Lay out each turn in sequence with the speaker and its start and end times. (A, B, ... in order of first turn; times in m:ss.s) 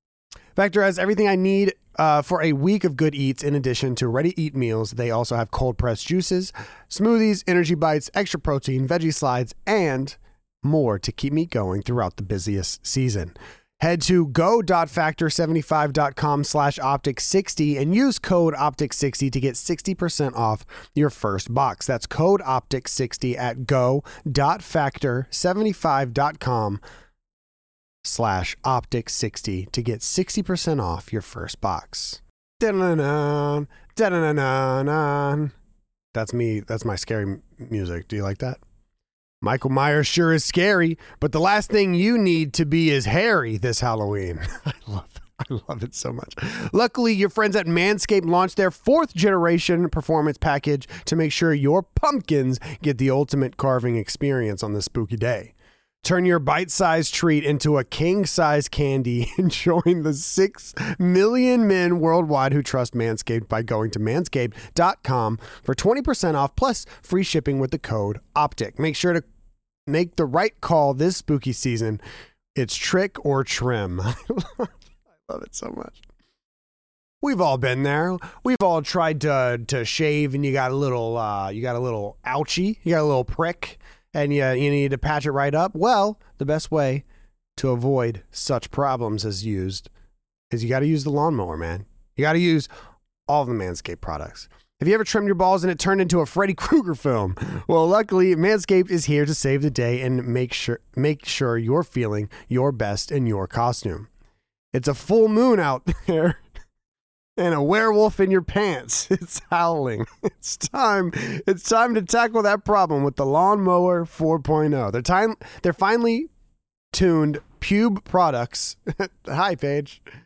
0:00.6-0:26.8 A
0:28.0-0:35.5 A
0:36.1-0:38.6 A
0:39.4-1:09.2 A
1:09.9-1:12.0 A
1:12.5-1:14.7 A
1:15.2-1:16.0 A
1:17.2-1:27.0 A
1:27.6-1:29.9 A
1:30.5-1:32.7 A
1:33.3-1:44.1 A
1:44.7-1:46.4 A
1:47.4-1:56.3 A
1:56.9-2:00.0 A